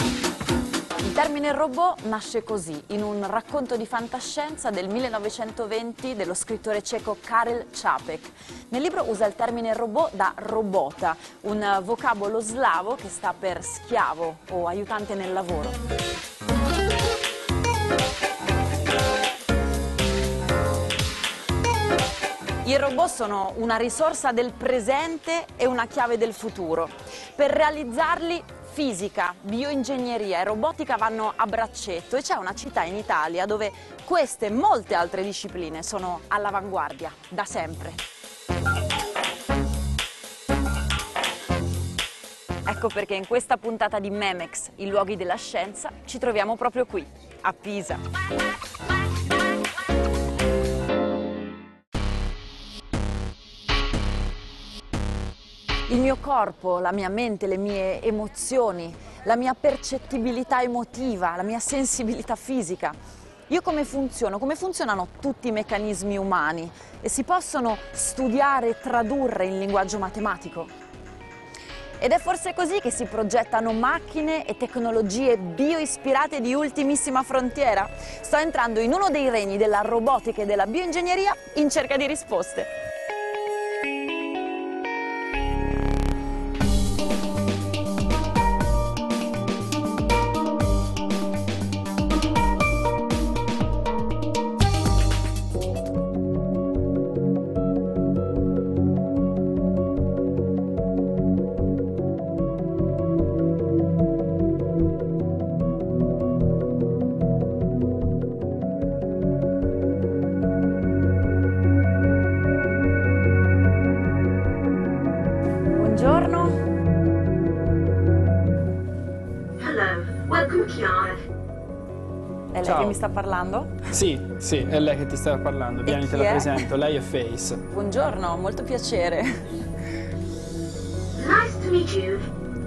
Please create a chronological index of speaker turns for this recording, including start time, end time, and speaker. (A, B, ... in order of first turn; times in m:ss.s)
0:01.0-0:15.8 A
0:22.6-0:38.0 A
0:42.7-0:48.0 A
0:55.9-1:03.0 A
1:03.5-1:10.7 A
1:12.0-1:22.7 A
1:55.7-1:56.6 A
1:59.6-2:01.2 B
2:02.5-2:03.8 A
2:02.6-2:03.0 C
2:03.9-2:07.6 C
2:05.9-2:06.7 A
2:07.7-2:09.6 A
2:11.2-2:12.3 B